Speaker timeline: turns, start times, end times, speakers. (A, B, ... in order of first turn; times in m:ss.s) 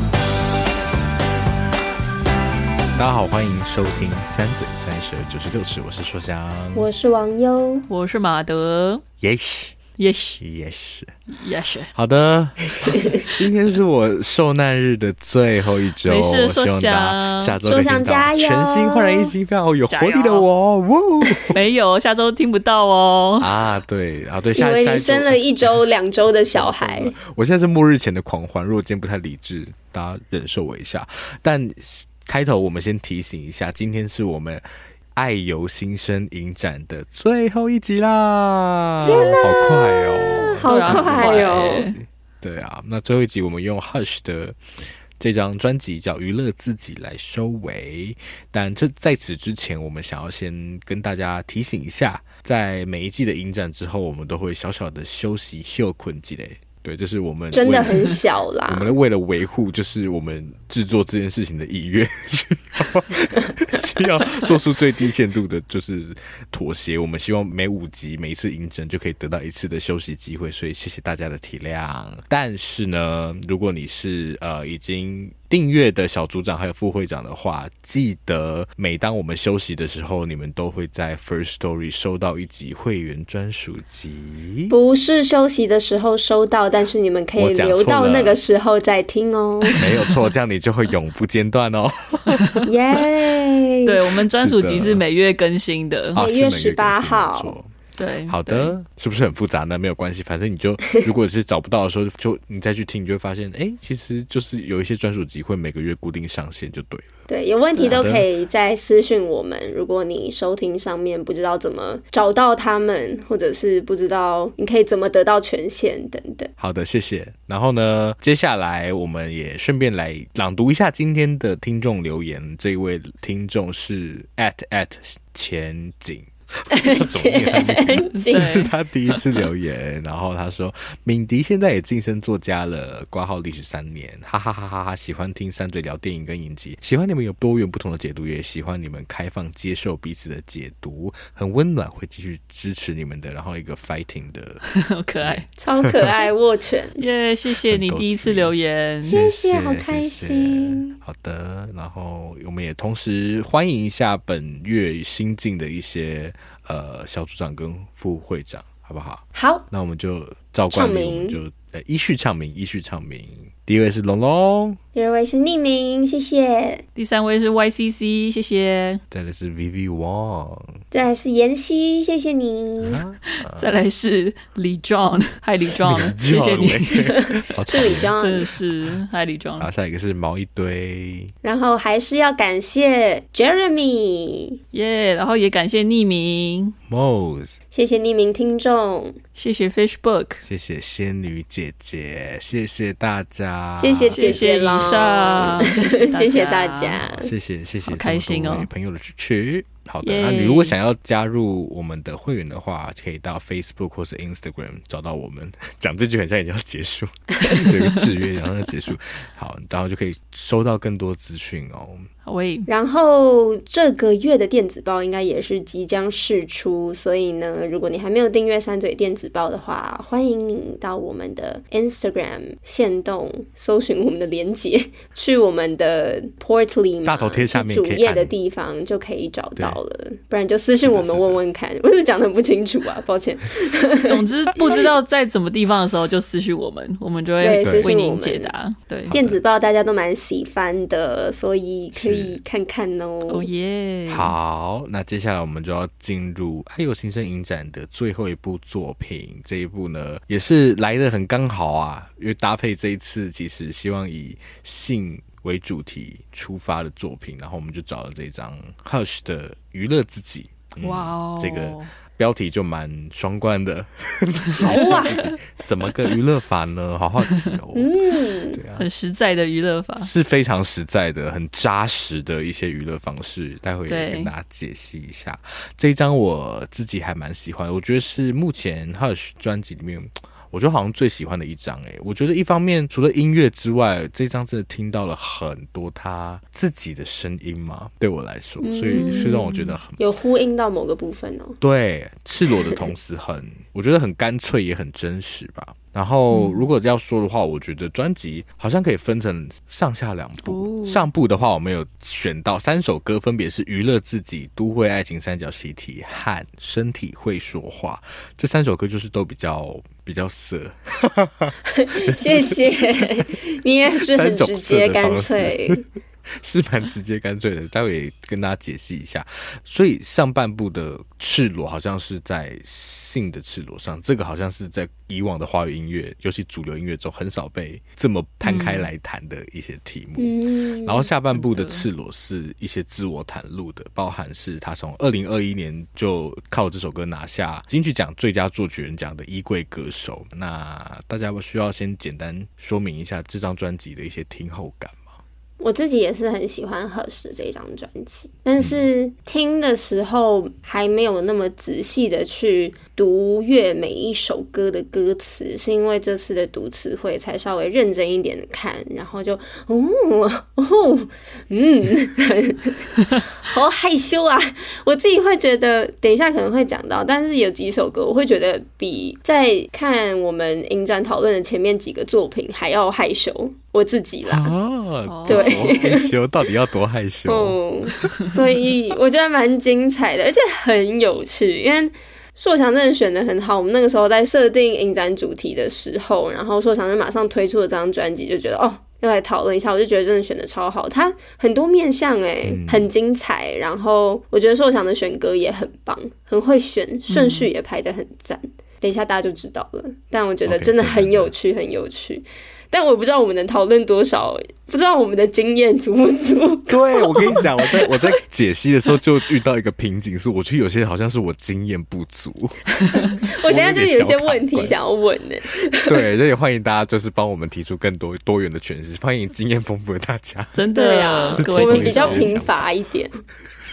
0:03.0-0:06.9 A
0:06.7-0:07.9 B
0:07.9-0:09.0 C
0:09.2-0:09.8 A
0:10.0-0:10.4 C
0:10.4-0:11.1 A
0:11.3-0:11.9 C
0:11.9-0:21.6 A
0:16.0-0:17.6 C
0:17.6-0:19.3 B
0:19.9-0:20.5 C
0:21.5-0:23.5 C
0:23.4-0:25.4 A
0:24.6-0:27.2 B
0:26.5-0:44.6 A
0:39.0-0:41.9 B
0:40.6-0:41.9 C
0:45.2-1:24.7 A
0:57.5-0:58.9 B
1:24.7-1:29.8 B
1:27.4-1:28.4 A
1:29.8-1:32.6 A
1:32.6-1:33.9 B
1:33.8-1:36.2 C
1:34.3-1:35.0 A
1:36.1-1:37.7 A
1:36.1-1:37.6 B
1:38.0-1:38.7 C
1:38.3-1:47.2 A
1:47.3-1:56.5 B
1:47.8-1:48.3 A
1:56.6-2:24.6 A
2:06.7-2:08.6 B
2:08.1-2:09.5 C
2:24.7-2:25.4 C
2:25.2-2:26.0 A
2:25.6-2:27.0 B
2:27.0-2:29.2 C
2:27.5-2:28.5 A
2:29.0-2:31.0 B
2:29.0-2:44.8 A
2:39.3-2:39.6 B
2:40.7-2:41.4 B
2:44.9-2:46.8 B
2:47.0-2:49.0 C
2:49.1-2:50.8 A
2:50.9-2:53.0 B
2:52.8-2:53.8 A
2:53.3-2:57.1 C
2:55.7-2:58.1 A
2:57.1-2:58.5 B
2:57.8-2:59.7 C
2:59.6-3:01.3 A
3:01.4-3:04.6 B
3:04.7-3:06.7 C
3:06.9-3:07.6 A
3:07.7-3:09.2 B
3:09.4-3:10.4 C
3:10.4-3:15.7 A
3:13.8-3:17.3 B
3:14.2-3:17.0 C
3:17.0-3:32.1 A
3:17.8-3:18.7 C
3:20.0-3:20.7 C
3:27.5-3:27.7 C
3:32.2-3:32.7 C
3:32.7-3:54.2 B
3:47.0-3:48.3 A
3:50.8-3:51.4 A
3:54.1-3:59.1 C
3:57.4-3:58.5 B
3:57.5-3:57.9 A
3:59.1-3:59.4 A
3:59.1-4:03.5 B
4:02.0-4:02.4 A
4:03.3-4:04.3 C
4:04.1-4:27.9 A
4:20.8-4:21.9 C
4:24.6-4:25.1 B
4:24.7-4:25.3 C
4:27.2-4:27.5 C
4:27.7-4:28.6 B
4:28.5-4:28.9 A
4:28.8-4:30.1 C
4:30.0-4:50.0 A
4:33.9-4:34.3 C
4:48.6-4:49.4 B
4:48.9-4:49.8 C
4:50.0-4:51.6 B
4:51.6-5:13.3 A
4:56.3-4:56.6 C
5:00.4-5:01.0 C
5:11.7-5:15.8 B
5:14.0-5:45.2 A
5:28.4-5:28.9 C
5:30.2-5:31.1 B
5:31.3-5:31.8 C
5:45.6-6:14.5 B
5:48.6-5:48.8 A
6:14.3-6:17.6 A
6:15.0-6:15.8 C
6:15.3-6:16.1 B
6:17.3-6:48.2 B
6:32.4-6:32.9 A
6:37.1-6:37.5 C
6:40.4-6:41.3 A
6:46.7-6:54.8 A
6:52.9-6:56.0 B
6:55.8-7:00.7 A
7:00.5-7:02.3 C
7:00.7-7:03.2 B
7:01.2-7:02.6 A